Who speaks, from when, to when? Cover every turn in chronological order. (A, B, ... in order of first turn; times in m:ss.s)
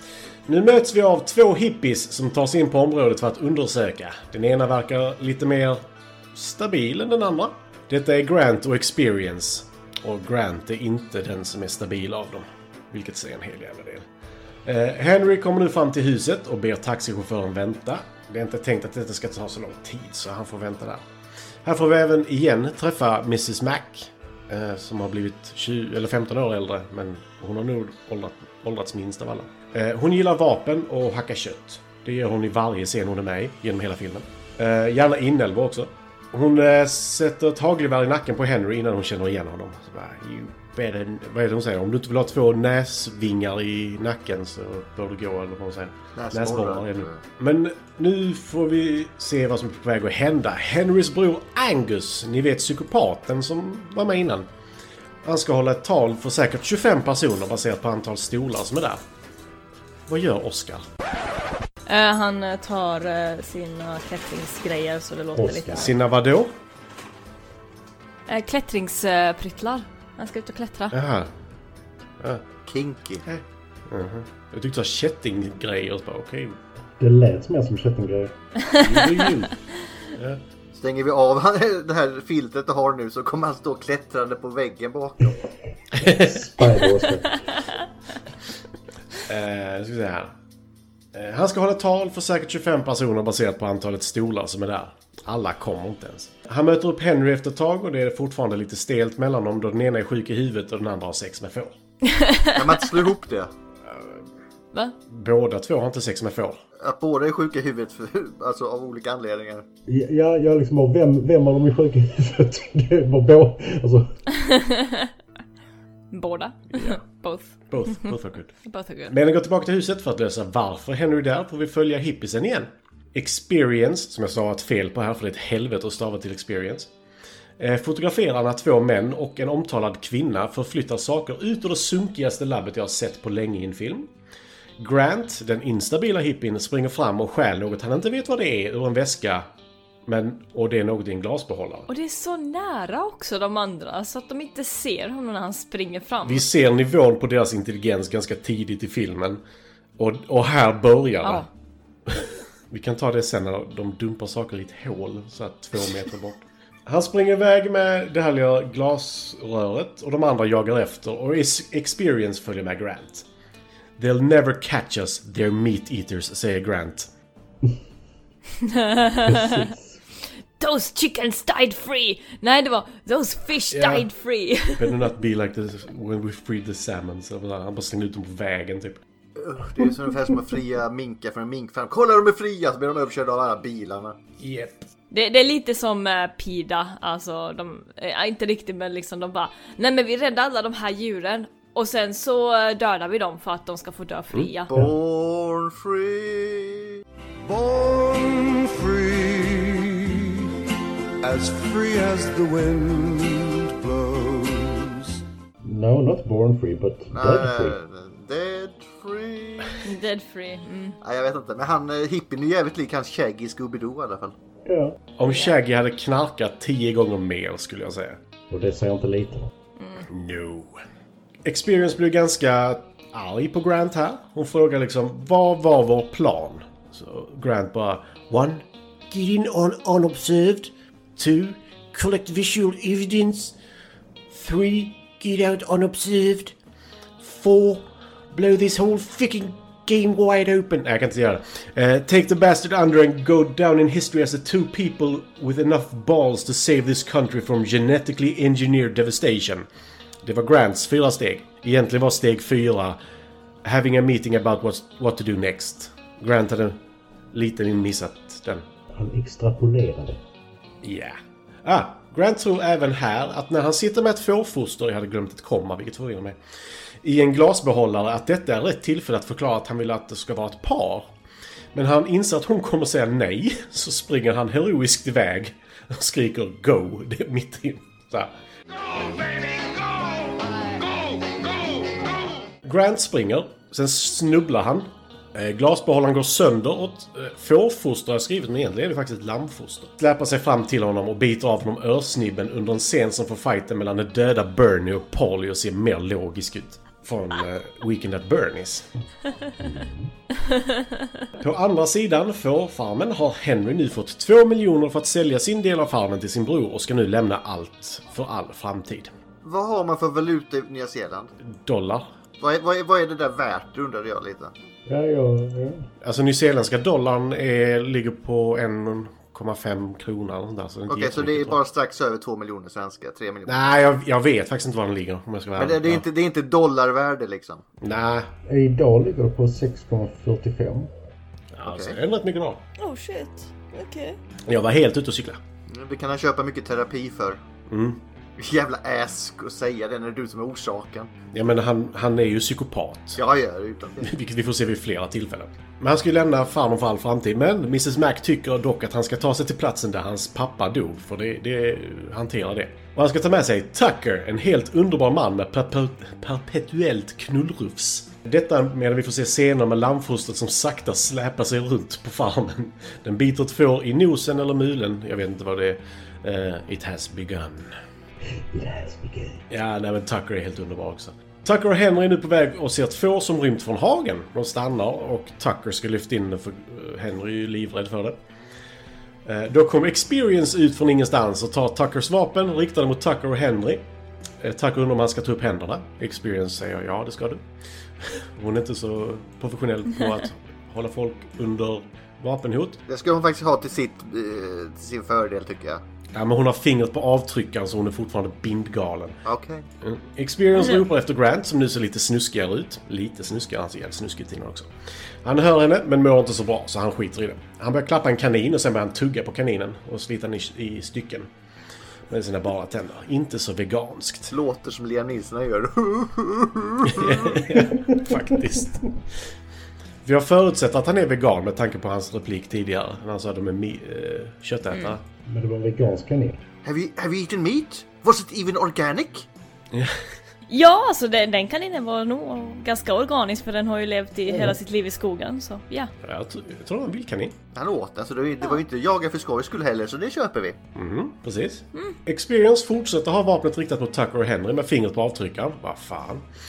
0:00.5-0:14.1 A
0:14.6-0:21.1 A
0:21.6-0:54.5 A
0:46.2-0:47.2 B
0:55.2-0:59.0 A
1:00.1-1:00.8 A
1:01.9-1:05.9 C
1:05.4-1:05.9 D
1:05.7-1:06.5 A
1:08.3-1:11.0 C
1:10.9-1:11.3 A
1:12.7-1:13.2 B
1:13.2-1:16.6 A
1:17.0-1:18.3 D
1:18.6-1:19.5 C
1:18.9-1:19.5 A
1:20.2-1:20.4 A
1:20.8-1:25.4 B
1:25.9-1:26.4 A
1:26.0-1:27.4 D
1:29.3-1:30.3 A
1:31.1-1:41.7 A
1:42.0-1:42.6 C
1:42.5-1:43.5 B
1:43.9-1:44.2 A
1:45.1-1:46.6 A
1:46.8-1:49.6 B
1:49.9-1:54.1 D
1:54.3-1:55.1 C
1:56.1-1:58.1 C
1:56.7-1:57.0 A
1:57.7-1:58.5 A
1:58.6-1:59.2 C
1:59.1-2:06.9 A
2:07.6-2:14.1 A
2:14.8-2:19.5 A
2:20.1-2:21.9 A
2:21.9-2:26.4 C
2:26.2-2:29.4 A
2:30.0-2:31.5 A
2:31.2-2:31.5 C
2:32.1-2:43.3 A
2:44.0-2:47.1 A
2:48.6-2:49.7 C
2:49.2-2:50.0 D
2:50.6-2:55.0 C
2:53.7-2:54.1 A
2:54.8-2:59.0 A
2:59.4-3:04.2 B
3:04.4-3:04.9 A
3:05.1-3:14.7 C
3:14.7-3:17.0 B
3:17.4-3:20.5 E
3:21.2-3:25.2 E
3:25.6-3:27.8 D
3:27.1-3:29.8 B
3:29.8-3:31.0 C
3:31.0-3:34.4 B
3:34.6-3:35.0 D
3:35.2-3:38.2 A
3:35.2-3:35.5 C
3:38.5-3:39.5 D
3:39.8-3:40.1 C
3:40.1-3:40.8 A
3:41.4-3:53.6 A
3:54.3-3:56.6 A
3:57.2-4:09.7 A
4:10.2-4:13.0 A
4:13.6-4:16.8 A
4:17.3-4:18.6 A
4:18.9-4:20.2 D
4:20.8-4:26.4 A
4:27.0-4:31.1 A
4:31.7-4:38.3 A
4:42.6-4:58.9 A
4:59.6-5:00.1 D
5:00.4-5:01.1 C
5:01.4-5:09.1 A
5:09.4-5:11.3 B
5:11.5-5:12.1 A
5:12.4-5:14.5 B
5:14.9-5:15.9 D
5:16.0-5:21.6 A
5:20.9-5:23.6 B
5:23.5-5:26.0 A
5:25.6-5:27.6 B
5:27.8-5:28.3 A
5:28.5-5:30.9 D
5:31.6-5:32.6 A
5:31.6-5:32.0 B
5:32.8-5:34.2 C
5:34.5-5:35.4 A
5:35.7-5:37.4 B
5:37.7-5:38.0 A
5:38.4-5:41.1 B
5:41.3-5:43.2 A
5:43.2-5:44.1 B
5:44.0-6:07.7 A
6:08.5-6:09.4 D
6:09.5-6:18.2 A
6:19.2-6:23.9 A
6:24.4-6:27.4 A
6:28.0-6:32.8 A
6:32.9-6:35.8 B
6:36.2-6:39.2 A
6:39.3-6:39.7 B
6:39.8-6:44.7 A
6:45.2-6:51.3 A
6:52.1-6:54.3 A
6:54.3-6:57.6 B
6:56.8-6:58.8 A
7:00.0-7:05.0 A
7:05.3-7:06.4 D
7:06.6-7:09.3 B
7:09.7-7:10.0 A
7:10.5-7:15.9 C
7:14.3-7:14.6 D
7:16.0-7:17.4 A
7:17.5-7:20.6 B
7:20.8-7:26.2 A